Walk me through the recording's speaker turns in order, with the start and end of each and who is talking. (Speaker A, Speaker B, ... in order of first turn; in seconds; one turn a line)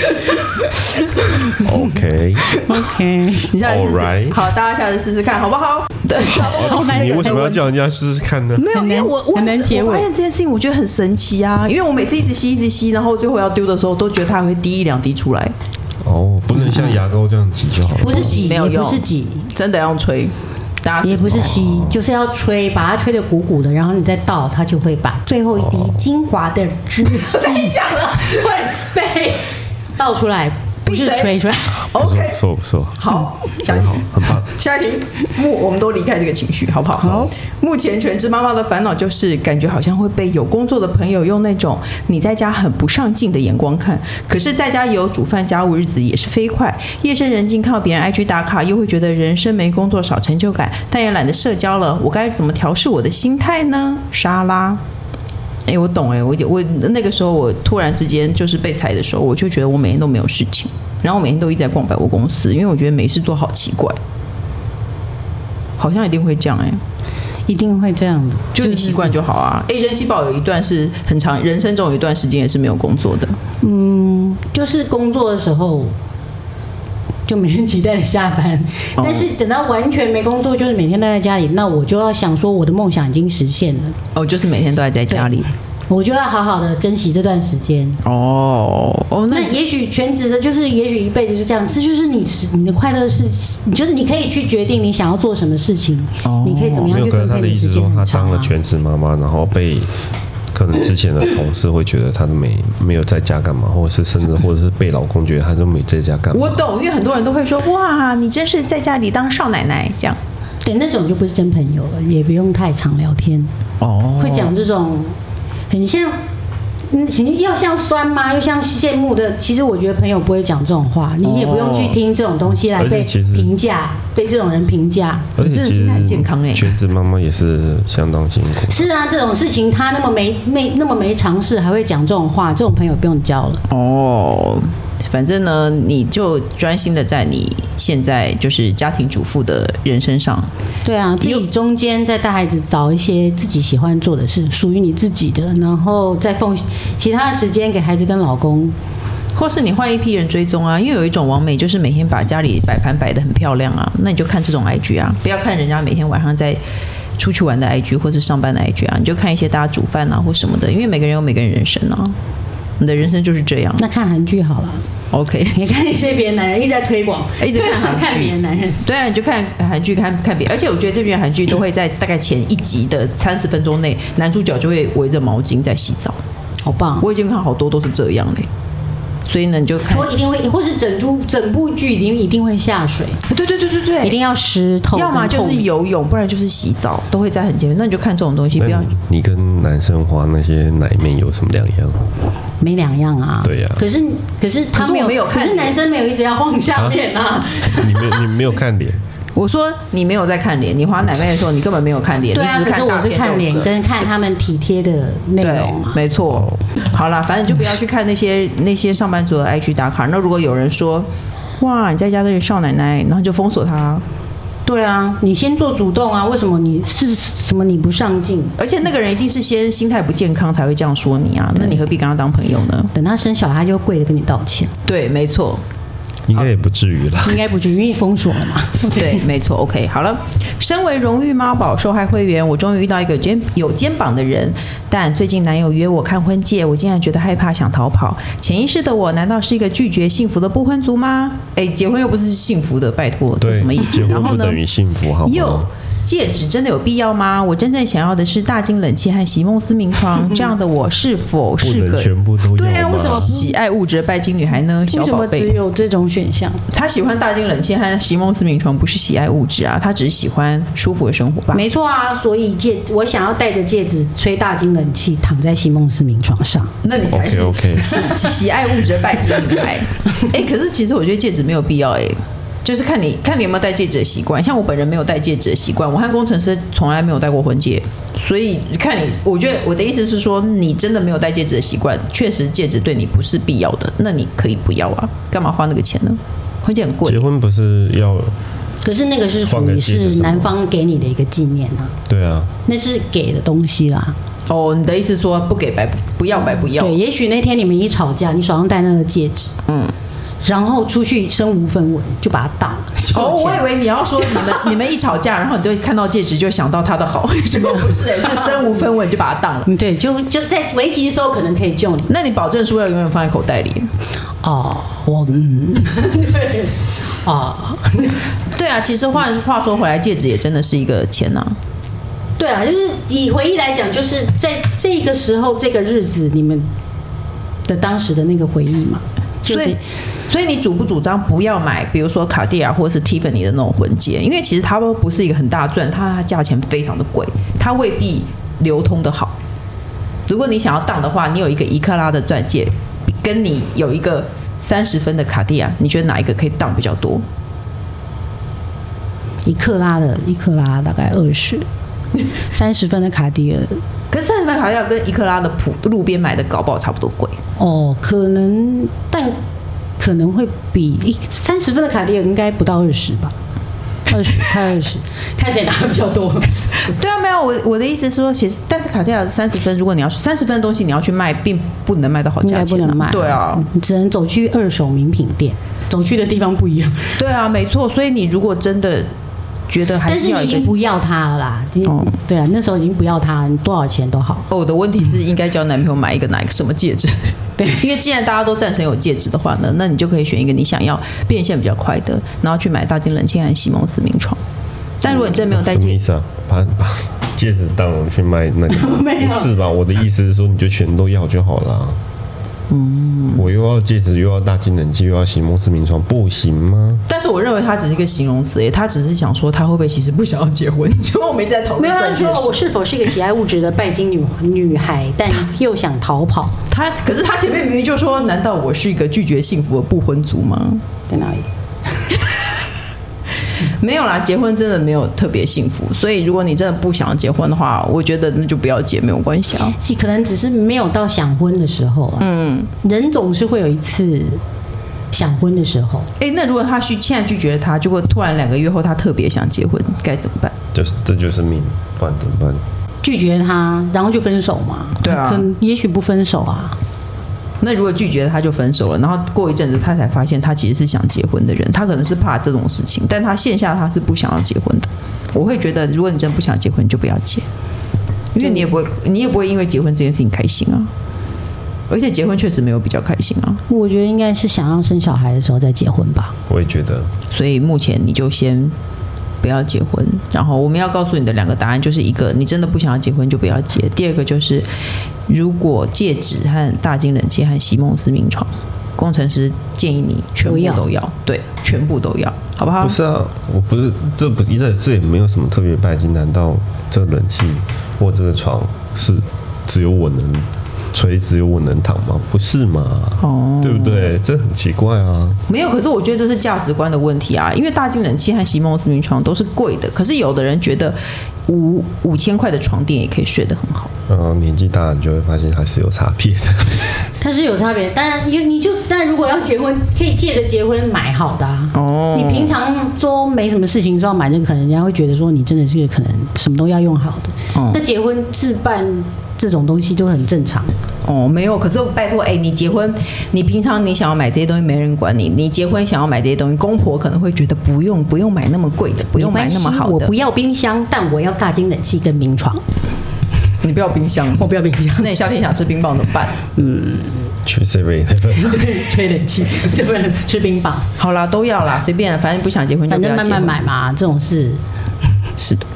Speaker A: 1.2-1.5
Speaker B: 1.6-2.6
Speaker A: 2.6-2.8
Speaker C: 2.6-3.5
Speaker A: 3.5-7.5
Speaker B: 3.6-4.4
Speaker C: 6.2-7.7
Speaker B: 6.3-8.7
Speaker A: 8.6-15.5
Speaker C: 8.7-10.1
Speaker B: 16.0-18.4
Speaker C: 18.0-19.5
Speaker A: 18.0-21.7
Speaker C: 21.0-31.9
Speaker B: 21.4-22.0
Speaker B: 25.6-26.0
Speaker A: 27.1-28.7
Speaker A: 30.9-32.4
Speaker B: 31.8-34.5
Speaker A: 33.0-54.8
Speaker B: 37.0-37.3
Speaker A: 55.7-64.0
Speaker A: 65.8-66.8
Speaker C: 67.5-69.1
Speaker A: 68.5-73.4
Speaker C: 73.6-75.9
Speaker C: 77.3-84.0
Speaker A: 79.0-79.3
Speaker A: 84.2-85.5
Speaker C: 85.1-88.0
Speaker A: 88.0-89.5
Speaker C: 89.3-98.5
Speaker A: 96.2-96.9
Speaker B: 96.8-99.9
Speaker B: 100.5-106.6
Speaker A: 106.3-110.2
Speaker C: 110.6-113.5
Speaker A: 113.8-114.5
Speaker C: 114.2-115.2
Speaker C: 115.7-116.2
Speaker C: 116.9-125.3
Speaker B: 121.5-122.0
Speaker B: 122.7-123.5
Speaker B: 125.4-128.9
Speaker A: 125.4-126.8
Speaker C: 128.7-133.6
Speaker A: 133.7-140.5
Speaker C: 140.8-148.8
Speaker A: 149.3-156.6
Speaker A: 157.2-162.2
Speaker A: 162.8-163.8
Speaker C: 163.8-164.8
Speaker A: 165.1-165.6
Speaker C: 165.5-168.8
Speaker A: 167.4-176.2
Speaker C: 176.6-177.1
Speaker A: 177.0-178.5
Speaker A: 179.3-180.1
Speaker C: 179.9-183.2
Speaker A: 183.3-184.2
Speaker C: 184.0-185.7
Speaker A: 184.9-188.9
Speaker B: 188.6-192.1
Speaker C: 192.6-198.4
Speaker B: 193.4-193.8
Speaker A: 194.7-195.8
Speaker B: 197.6-199.0
Speaker A: 199.4-203.7
Speaker C: 202.3-206.0
Speaker A: 205.4-211.1
Speaker B: 206.3-206.6
Speaker A: 211.6-214.0
Speaker C: 214.7-218.6
Speaker A: 218.6-222.9
Speaker C: 222.9-224.7
Speaker A: 224.8-225.6
Speaker B: 226.3-227.4
Speaker C: 227.2-229.2
Speaker A: 228.8-244.6
Speaker B: 243.4-245.7
Speaker A: 245.2-255.5
Speaker B: 251.6-253.3
Speaker C: 252.6-253.5
Speaker C: 254.9-256.6
Speaker A: 256.7-261.6
Speaker C: 261.5-266.7
Speaker A: 266.8-287.3
Speaker B: 267.1-268.1
Speaker B: 287.0-288.4
Speaker C: 288.8-291.9
Speaker B: 289.4-290.5
Speaker B: 292.1-292.5
Speaker C: 292.7-294.2
Speaker A: 294.5-297.0
Speaker C: 296.6-299.5
Speaker A: 299.7-299.9
Speaker C: 300.4-303.7
Speaker A: 303.1-309.7
Speaker C: 304.2-304.8
Speaker C: 307.6-308.6
Speaker C: 309.7-312.1
Speaker A: 312.1-313.9
Speaker C: 314.4-318.3
Speaker A: 318.5-321.6
Speaker C: 322.4-326.7
Speaker C: 327.7-329.8
Speaker A: 329.5-339.4
Speaker A: 340.3-347.2
Speaker C: 349.4-351.7
Speaker C: 352.5-353.8
Speaker A: 354.1-357.4
Speaker C: 357.6-359.4
Speaker C: 360.0-363.4
Speaker C: 364.1-366.9
Speaker A: 366.8-373.7
Speaker C: 372.4-377.2
Speaker A: 377.2-379.1
Speaker A: 379.7-380.7
Speaker C: 380.1-384.5
Speaker A: 381.9-382.1
Speaker A: 384.5-394.4
Speaker C: 387.6-387.9
Speaker A: 395.0-396.0
Speaker B: 395.4-402.0
Speaker C: 398.7-399.5
Speaker A: 402.7-403.5
Speaker B: 403.4-407.1
Speaker A: 407.1-412.6
Speaker C: 411.8-416.6
Speaker A: 416.7-420.8
Speaker C: 421.1-421.5
Speaker A: 422.1-422.4
Speaker A: 423.7-429.8
Speaker C: 429.7-432.3
Speaker A: 432.2-432.7
Speaker C: 432.8-434.4
Speaker C: 435.1-436.1
Speaker A: 436.2-440.6
Speaker B: 440.7-442.6
Speaker C: 443.0-446.8
Speaker A: 445.0-445.5
Speaker A: 447.6-457.5
Speaker A: 458.3-460.9
Speaker A: 461.9-463.6
Speaker C: 463.7-466.3
Speaker B: 466.5-467.1
Speaker A: 467.3-468.8
Speaker A: 469.4-474.7
Speaker A: 475.3-483.0
Speaker C: 480.4-480.9
Speaker B: 482.8-495.4
Speaker A: 493.2-494.1
Speaker A: 495.5-503.9
Speaker B: 504.1-507.1
Speaker C: 507.2-520.8
Speaker A: 511.7-512.6
Speaker A: 517.5-517.8
Speaker A: 521.0-530.1
Speaker C: 529.2-532.6
Speaker A: 533.6-534.5
Speaker C: 534.4-535.1
Speaker A: 535.0-536.4
Speaker C: 536.6-537.3
Speaker B: 537.5-538.9
Speaker C: 538.4-540.9
Speaker A: 541.0-543.6
Speaker C: 542.9-544.6